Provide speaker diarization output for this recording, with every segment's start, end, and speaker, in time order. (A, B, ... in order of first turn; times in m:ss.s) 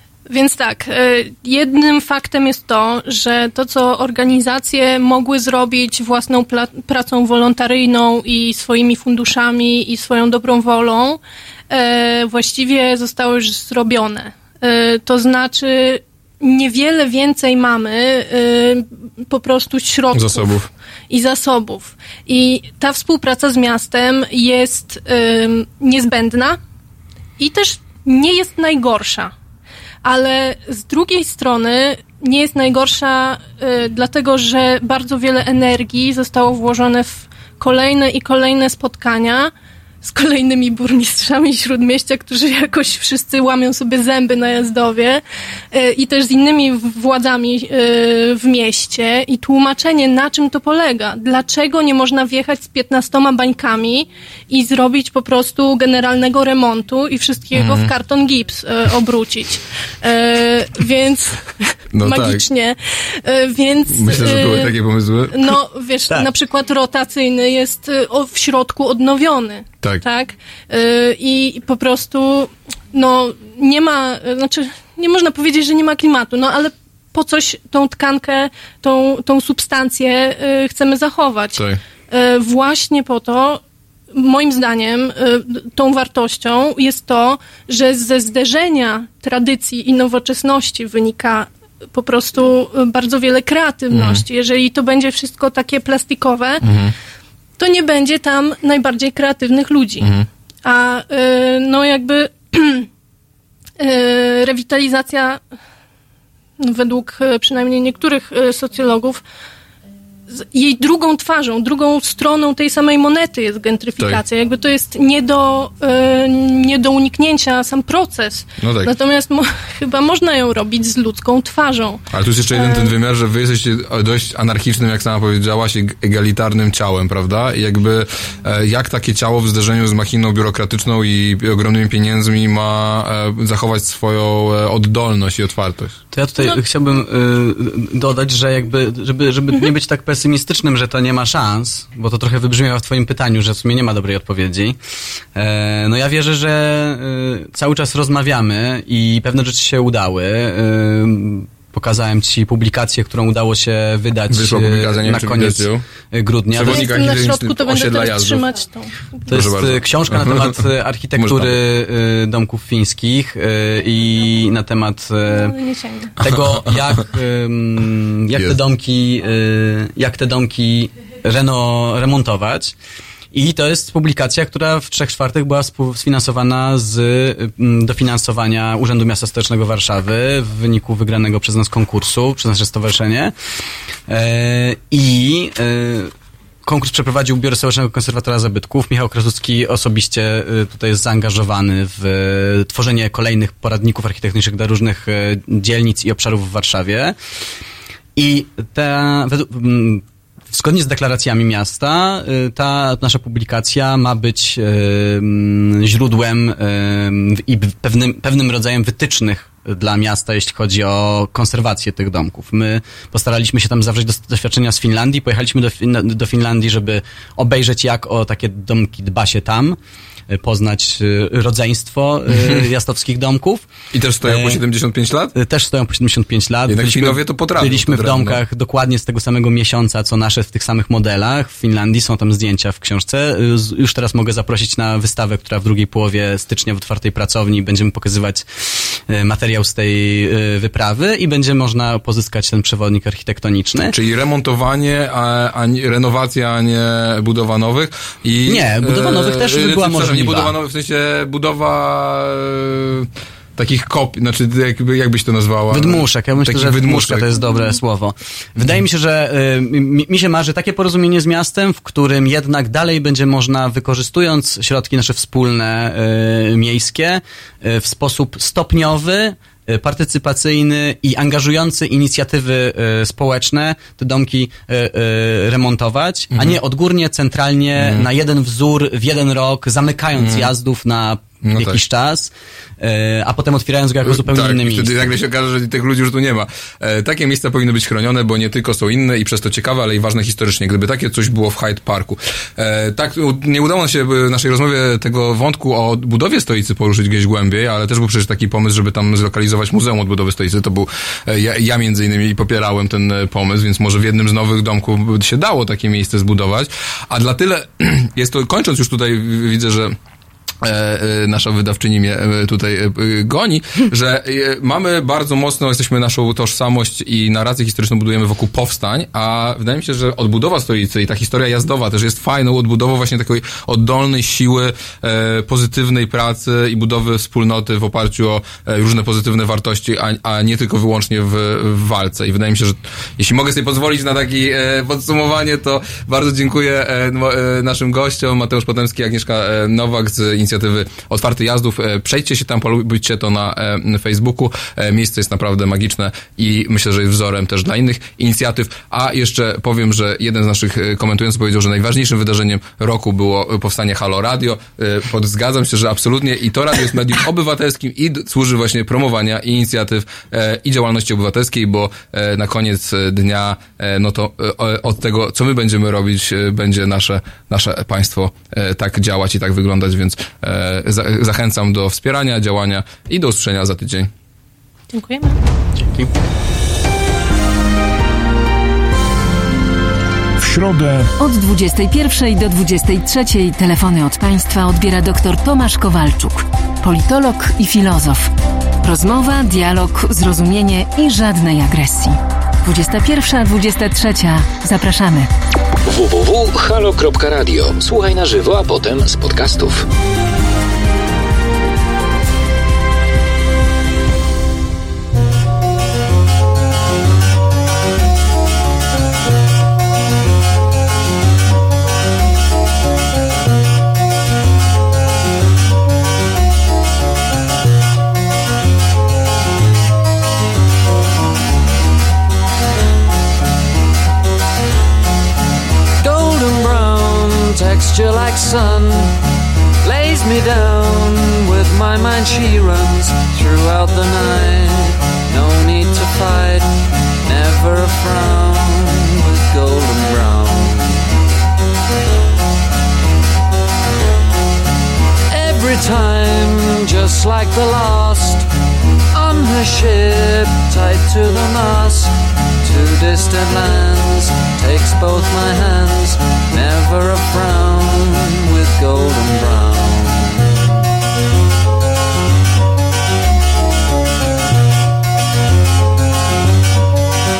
0:00.3-0:20.6 A
0:20.1-0:20.7 B
0:21.1-0:26.6 A
0:27.4-0:29.3 A
0:30.0-0:39.5 A
0:40.0-0:45.2 A
0:45.7-1:04.7 A
0:57.5-0:57.9 B
1:01.9-1:02.4 B
1:03.9-1:05.4 B
1:05.3-1:23.6 A
1:24.1-1:36.6 A
1:33.9-1:34.2 B
1:36.6-1:36.9 B
1:37.6-1:40.1 A
1:40.0-1:40.3 B
1:40.6-1:42.9 A
1:43.8-1:45.4 A
1:46.6-1:49.2 A
1:50.3-2:02.0 A
1:58.6-1:58.9 B
2:02.1-2:16.0 B
2:02.5-2:02.9 A
2:16.1-2:24.8 C
2:25.4-2:36.8 C
2:34.3-2:35.8 B
2:36.5-2:38.4 B
2:36.7-2:39.3 A
2:39.3-2:40.6 B
2:39.3-2:45.5 C
2:41.2-2:41.6 B
2:45.4-2:46.2 A
2:46.2-2:52.8 C
2:46.2-2:46.6 B
2:53.3-3:03.3 C
3:04.1-3:06.1 C
3:06.6-3:17.2 C
3:18.2-3:39.8 C
3:40.3-3:43.7 C
3:42.3-3:42.6 B
3:43.9-3:45.4 B
3:44.2-3:44.6 C
3:45.4-4:04.0 C
3:46.7-3:48.4 B
4:03.9-4:17.3 B
4:08.5-4:10.5 C
4:15.7-4:45.2 C
4:36.3-4:36.6 B
4:37.8-4:38.1 B
4:40.2-4:40.5 B
4:41.4-4:41.8 B
4:44.1-5:10.0 B
5:10.6-6:14.1 B
6:14.9-6:15.4 A
6:15.8-6:16.1 C
6:21.2-6:28.3 D
6:28.8-6:35.3 D
6:35.9-6:39.9 E
7:06.0-7:09.1 F
7:09.9-7:16.6 F
7:17.3-7:20.9 F
7:25.4-7:28.4 F
7:29.2-7:32.1 F
7:32.7-7:40.3 F